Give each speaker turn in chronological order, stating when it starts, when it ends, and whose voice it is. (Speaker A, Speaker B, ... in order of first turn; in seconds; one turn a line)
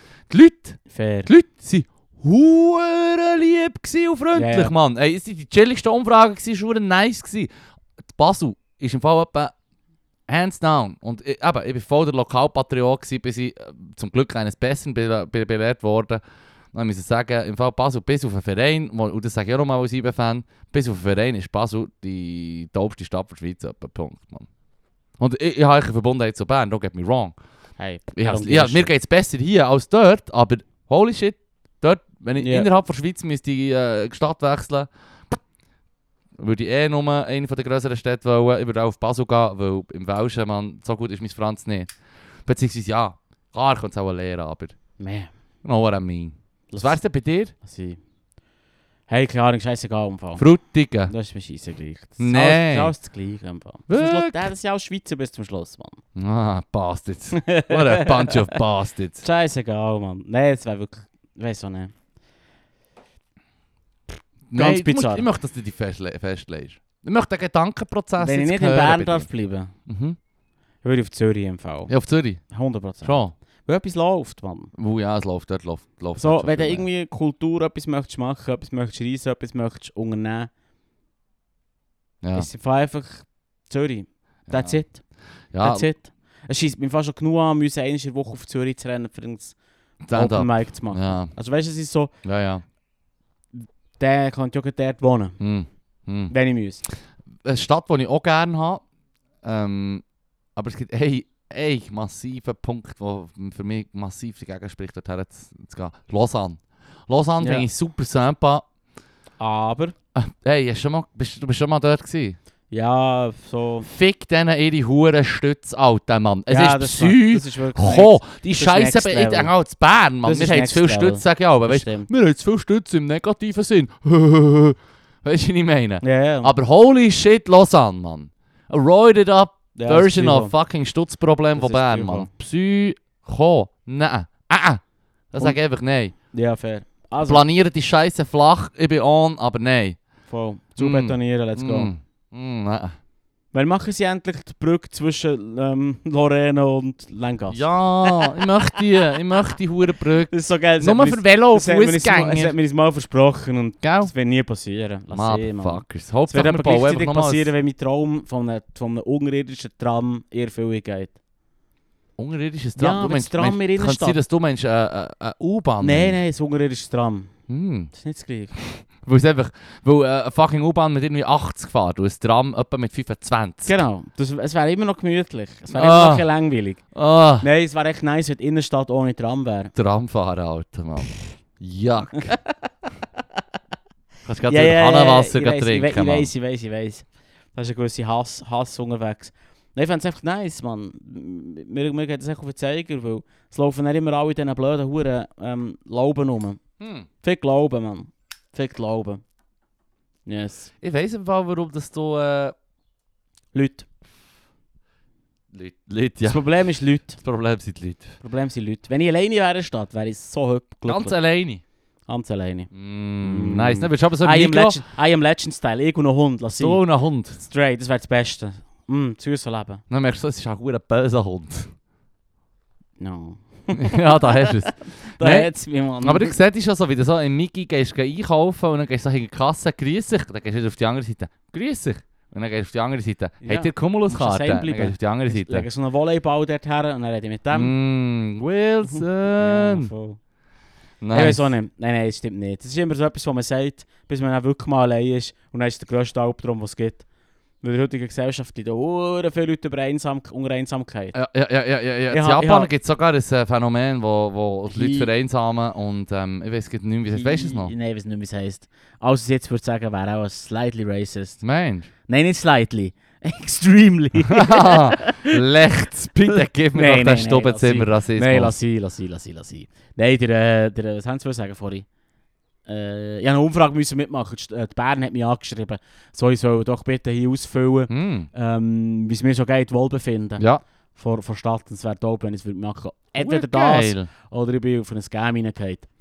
Speaker A: 0.3-7.5
Speaker B: 0.9-1.3
Speaker B: 4.3-4.7
Speaker A: 8.1-9.5
Speaker A: 10.3-16.2
Speaker A: 16.7-24.5
Speaker A: 25.2-27.4
Speaker B: 27.8-28.9
Speaker A: 28.1-35.4
Speaker B: 32.4-32.7
Speaker A: 36.4-41.9
Speaker A: 42.5-44.7
Speaker B: 45.0-45.3
Speaker A: 45.6-47.5
Speaker B: 46.7-47.0
Speaker B: 47.6-48.0
Speaker B: 49.1-50.4
Speaker A: 50.4-51.1
Speaker B: 51.1-56.0
Speaker A: 52.2-52.9
Speaker A: 53.9-54.5
Speaker A: 56.1-59.2
Speaker B: 57.4-58.5
Speaker B: 59.2-61.9
Speaker A: 64.5-69.3
Speaker B: 64.5-65.3
Speaker B: 68.2-69.7
Speaker A: 69.9-70.2
Speaker B: 70.8-71.9
Speaker A: 71.9-72.4
Speaker B: 72.5-74.7
Speaker A: 73.0-73.3
Speaker A: 74.7-76.8
Speaker B: 76.2-80.5
Speaker A: 82.2-82.5
Speaker B: 82.3-85.0
Speaker A: 84.5-84.8
Speaker A: 85.5-85.9
Speaker B: 85.6-89.5
Speaker A: 90.0-91.3
Speaker B: 90.1-92.1
Speaker A: 92.2-92.6
Speaker B: 93.5-95.4
Speaker A: 95.4-96.3
Speaker B: 96.3-96.8
Speaker A: 97.4-98.8
Speaker A: 99.4-100.0
Speaker A: 100.5-108.6
Speaker B: 107.4-107.7
Speaker B: 109.4-109.9
Speaker A: 110.1-112.4
Speaker B: 112.7-113.9
Speaker A: 113.8-134.8
Speaker B: 116.5-119.5
Speaker B: 120.2-122.1
Speaker B: 126.0-126.5
Speaker B: 129.7-130.5
Speaker B: 131.5-132.3
Speaker A: 135.3-136.1
Speaker B: 136.3-137.4
Speaker A: 137.2-140.0
Speaker B: 140.3-141.9
Speaker A: 140.8-142.9
Speaker B: 143.5-148.3
Speaker A: 147.5-152.5
Speaker B: 150.3-161.1
Speaker A: 153.8-154.1
Speaker A: 155.1-157.5
Speaker A: 162.2-166.2
Speaker B: 162.8-164.2
Speaker B: 165.8-167.3
Speaker A: 167.5-167.9
Speaker B: 167.9-168.6
Speaker A: 168.6-173.8
Speaker B: 173.6-176.8
Speaker A: 175.7-176.3
Speaker A: 176.9-177.5
Speaker B: 177.4-179.7
Speaker A: 179.8-182.3
Speaker A: 184.2-186.3
Speaker B: 184.5-196.6
Speaker A: 196.8-197.1
Speaker B: 197.2-199.2
Speaker B: 200.2-200.7
Speaker A: 200.8-202.5
Speaker B: 203.5-203.8
Speaker A: 205.5-206.4
Speaker B: 206.2-207.2
Speaker A: 207.2-208.1
Speaker B: 208.2-211.2
Speaker A: 210.8-211.6
Speaker B: 212.1-212.7
Speaker A: 212.7-214.8
Speaker B: 213.2-219.8
Speaker A: 216.6-217.4
Speaker A: 219.9-221.7
Speaker B: 223.0-226.4
Speaker A: 223.7-225.5
Speaker A: 226.0-235.7
Speaker B: 233.4-237.7
Speaker A: 237.5-239.9
Speaker B: 238.8-240.2
Speaker A: 241.0-241.5
Speaker B: 241.1-247.0
Speaker B: 247.6-251.1
Speaker A: 251.1-257.7
Speaker B: 252.1-252.7
Speaker B: 254.7-255.1
Speaker B: 257.1-261.4
Speaker A: 261.4-261.9
Speaker B: 262.1-265.4
Speaker A: 264.3-268.5
Speaker B: 266.3-271.9
Speaker B: 272.6-285.9
Speaker A: 277.9-278.3
Speaker A: 280.4-280.6
Speaker A: 283.2-284.1